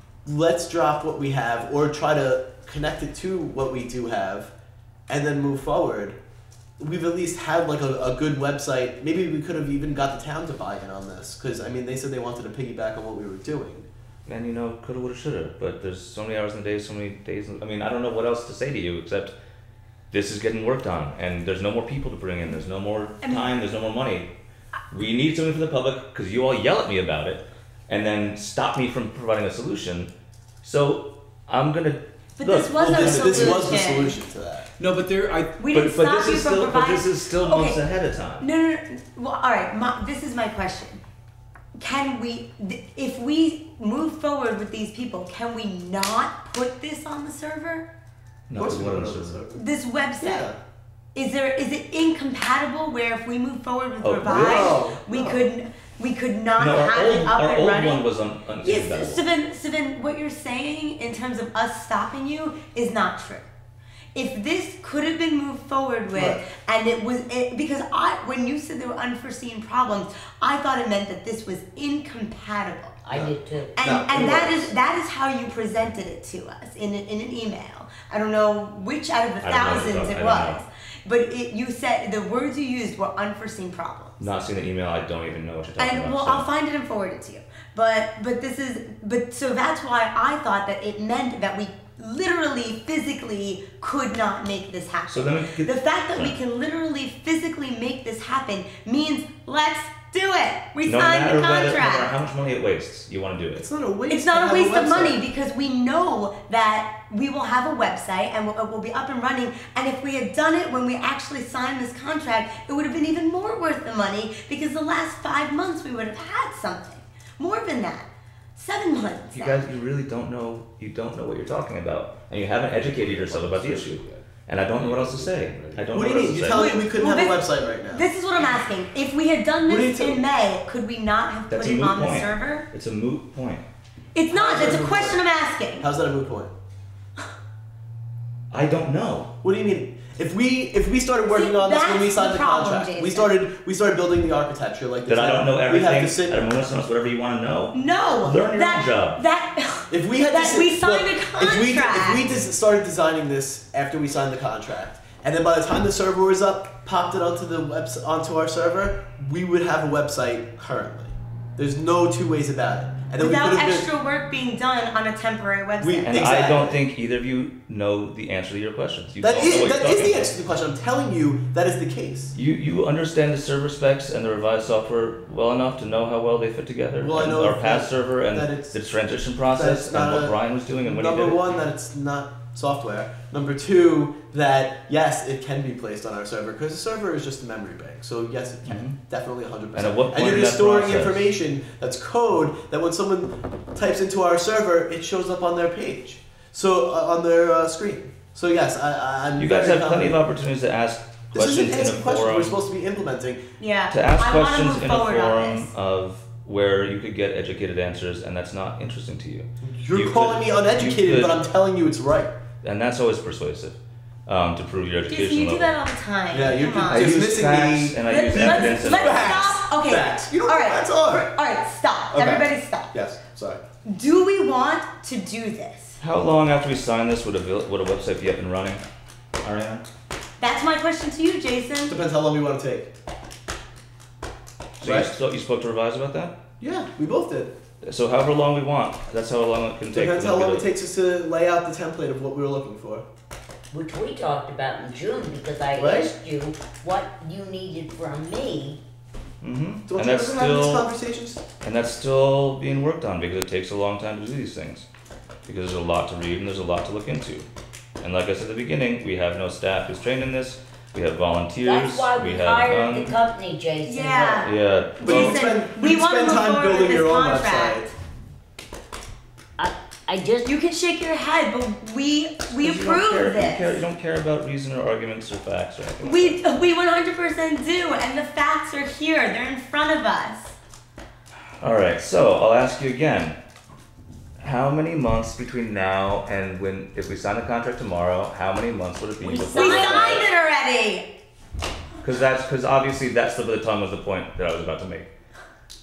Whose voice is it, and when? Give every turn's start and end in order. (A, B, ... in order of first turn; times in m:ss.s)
0:00.2-0:04.5 A
0:05.1-0:06.2 A
0:06.8-0:13.9 A
0:14.3-0:19.4 B
0:20.1-0:24.3 B
0:23.2-0:23.5 C
0:24.9-0:30.1 B
0:30.6-0:33.7 B
0:32.4-0:34.2 C
0:32.8-0:34.7 A
0:34.8-0:35.5 D
0:35.6-0:37.8 C
0:35.7-0:38.5 B
0:38.4-0:41.0 C
0:41.8-0:47.9 C
0:48.5-0:49.4 B
0:48.6-0:49.7 A
0:49.5-0:50.5 C
0:50.2-0:50.6 A
0:51.2-0:58.0 C
0:54.0-0:54.8 B
0:54.2-0:55.4 A
0:56.6-0:59.2 B
0:58.6-1:03.5 C
1:04.2-1:13.0 C
1:06.1-1:06.4 A
1:13.0-1:13.7 E
1:13.1-1:14.8 A
1:13.8-1:24.2 C
1:19.4-1:20.6 B
1:24.2-1:26.5 B
1:25.8-1:42.1 C
1:35.1-1:36.4 B
1:40.8-1:43.6 B
1:43.6-1:45.2 A
1:44.1-1:59.6 C
1:59.3-2:06.7 B
2:02.7-2:04.2 D
2:04.8-2:05.9 D
2:05.9-2:08.1 A
2:06.4-2:12.7 C
2:09.6-2:10.2 A
2:11.5-2:13.6 B
2:14.1-2:15.9 C
2:14.3-2:15.2 A
2:15.8-2:16.5 A
2:18.5-2:19.3 B
2:19.4-2:26.5 A
2:21.3-2:23.4 C
2:25.1-2:29.2 B
2:27.7-2:32.3 C
2:29.9-2:43.9 A
2:43.2-2:46.2 C
2:45.8-2:46.8 A
2:46.1-2:50.3 B
2:49.2-2:52.3 A
2:52.3-3:01.5 B
2:57.0-2:58.8 A
2:59.5-3:20.2 A
3:08.7-3:09.0 B
3:09.7-3:11.3 B
3:19.4-3:22.6 B
3:21.3-3:23.4 A
3:23.6-3:25.7 C
3:23.9-3:31.4 B
3:29.6-3:32.3 A
3:32.6-3:35.8 B
3:35.1-3:37.2 C
3:36.3-3:41.3 A
3:36.9-3:39.5 B
3:38.0-3:43.0 C
3:42.1-3:43.6 A
3:43.9-3:46.0 C
3:46.0-3:48.8 B
3:49.4-3:49.9 B
3:50.4-3:52.0 C
3:51.9-3:52.9 A
3:54.8-3:56.4 B
3:54.8-3:55.1 A
3:56.6-3:57.5 A
3:57.8-4:00.7 B
3:59.9-4:03.0 A
4:03.7-4:08.8 E
4:05.8-4:06.1 A
4:09.4-4:10.9 B
4:09.9-4:11.4 A
4:11.6-4:14.9 B
4:15.4-4:17.5 B
4:18.0-4:23.2 B
4:21.6-4:24.5 E
4:23.8-4:27.9 C
4:24.4-4:25.4 B
4:25.0-4:27.9 A
4:29.6-4:30.5 E
4:30.4-4:33.8 C
4:32.5-4:36.4 B
4:36.0-4:40.6 C
4:41.6-4:43.4 B
4:44.4-4:50.3 B
4:49.2-4:50.3 E
4:49.5-4:51.1 C
4:52.0-4:55.1 B